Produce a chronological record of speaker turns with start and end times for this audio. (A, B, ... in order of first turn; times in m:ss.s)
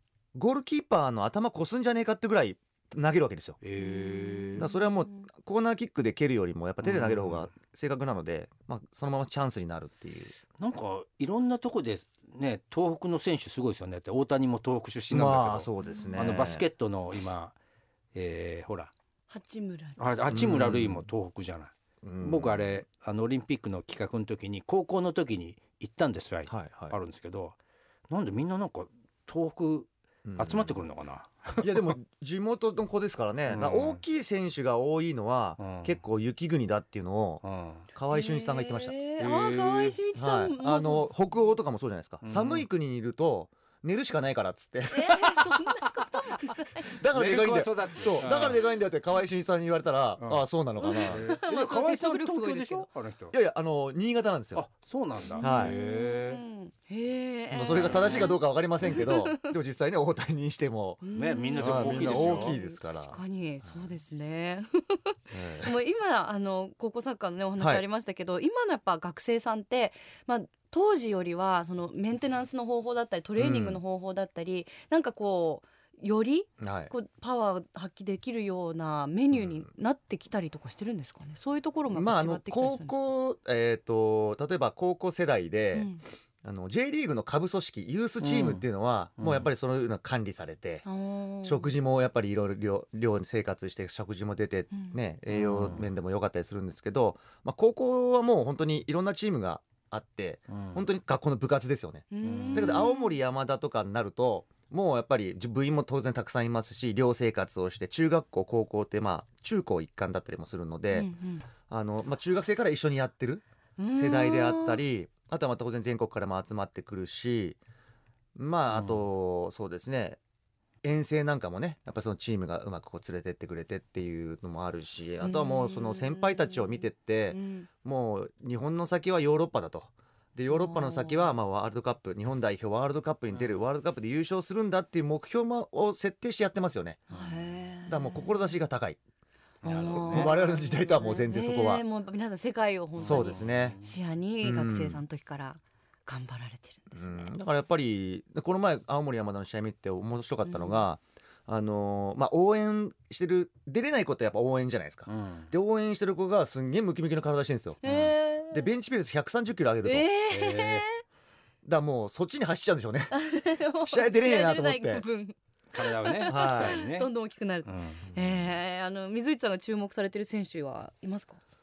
0:00.3-0:03.6 A
0:03.6-0:04.7 B
0:03.8-0:05.2 C
0:04.6-0:10.3 A
0:06.8-0:07.4 B
0:10.6-0:17.5 B
0:15.1-0:16.6 A
0:15.8-0:16.3 C
0:18.1-0:18.9 B
0:19.3-0:20.1 C
0:20.0-0:27.6 B
0:20.3-0:21.1 A
0:22.0-0:22.7 A
0:26.5-0:27.0 A
0:28.1-0:31.9 B
0:30.2-0:30.8 A
0:31.6-0:37.4 A
0:33.5-0:34.0 B
0:35.6-0:36.0 B
0:37.4-0:37.9 B
0:37.9-0:39.0 A
0:38.1-0:41.1 C
0:39.2-0:40.0 B
0:40.1-0:45.4 A
0:42.2-0:42.6 B
0:44.9-0:46.9 C
0:46.9-0:51.2 A
0:47.1-0:48.7 B
0:50.2-0:50.4 B
0:50.8-0:52.9 C
0:51.0-0:53.4 B
0:53.3-0:54.6 A
0:54.5-0:56.4 B
0:55.2-0:59.5 C
0:55.4-0:55.8 A
0:57.5-1:01.0 A
0:57.6-0:58.4 B
1:01.0-1:22.9 C
1:01.1-1:02.6 B
1:01.6-1:03.7 A
1:05.3-1:05.7 A
1:07.6-1:07.8 A
1:13.4-1:13.8 A
1:16.6-1:16.9 A
1:19.3-1:19.6 A
1:21.9-1:25.9 A
1:25.7-1:26.0 C
1:26.4-1:30.8 A
1:28.2-1:28.6 B
1:29.2-1:29.5 B
1:30.8-1:31.7 C
1:31.4-1:51.1 A
1:34.7-1:35.0 C
1:35.3-1:35.8 B
1:40.5-1:40.8 B
1:42.1-1:43.2 C
1:42.2-1:42.9 B
1:50.9-1:51.5 C
1:51.7-1:53.4 A
1:53.8-1:54.8 C
1:53.9-1:57.6 A
1:58.4-2:00.2 A
1:58.7-1:59.0 B
2:00.8-2:17.1 A
2:05.2-2:07.7 C
2:10.5-2:11.3 C
2:17.1-2:18.3 C
2:17.8-2:19.0 A
2:19.6-2:27.3 C
2:19.6-2:21.8 A
2:20.0-2:20.3 B
2:23.0-2:23.9 B
2:23.0-2:23.8 A
2:24.4-2:25.0 A
2:26.9-2:37.8 A
2:30.4-2:30.8 C
2:35.1-2:35.5 B
2:37.8-2:38.7 C
2:37.8-2:38.2 B
2:38.5-2:40.1 A
2:39.8-2:41.0 C
2:40.3-2:40.9 B
2:41.6-2:43.1 A
2:43.1-2:51.4 C
2:43.8-2:45.0 A
2:45.7-2:47.1 B
2:46.3-2:46.8 A
2:47.6-2:48.1 B